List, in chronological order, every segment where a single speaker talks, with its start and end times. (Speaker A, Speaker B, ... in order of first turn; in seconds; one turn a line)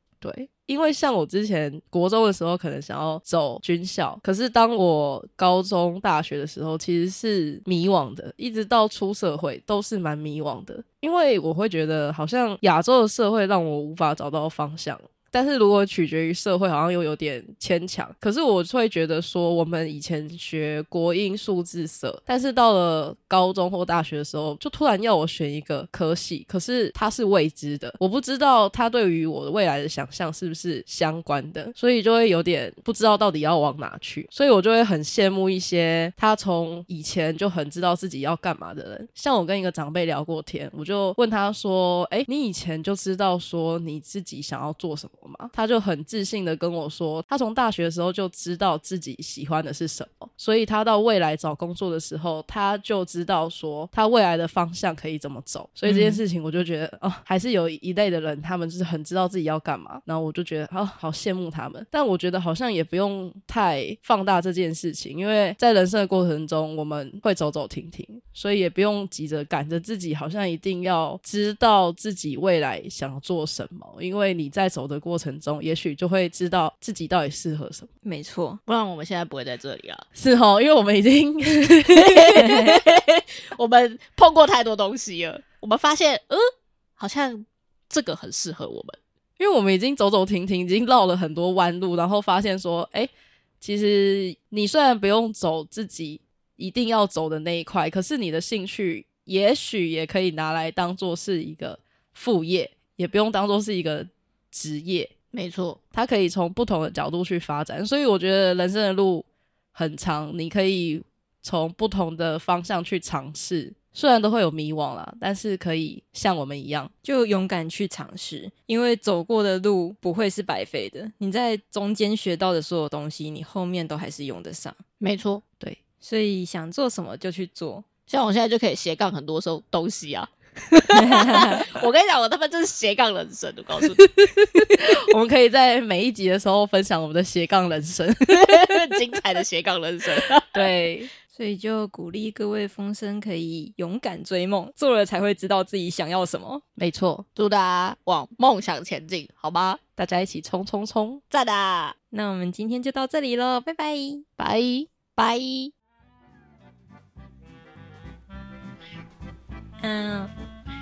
Speaker A: 0.2-77.9
Speaker B: 55.9-56.2
Speaker B: 78.0-78.6
Speaker C: 78.7-80.0
Speaker A: 80.2-82.6
Speaker C: 81.9-89.0
Speaker B: 82.4-82.7
Speaker A: 89.4-105.1
Speaker C: 105.3-105.8
Speaker A: 105.9-116.9
Speaker B: 117.0-124.8
Speaker C: 125.0-125.4
Speaker B: 126.0-127.8
Speaker C: 128.1-134.0
Speaker B: 131.0-131.7
Speaker A: 134.0-138.8
Speaker C: 138.3-140.7
Speaker A: 140.5-141.1
Speaker B: 141.3-146.6
Speaker A: 146.8-147.2
Speaker C: 147.4-149.8
Speaker A: 150.0-151.2
Speaker C: 151.3-151.9
Speaker B: 152.1-154.2
Speaker C: 154.4-155.7
Speaker B: 159.8-160.3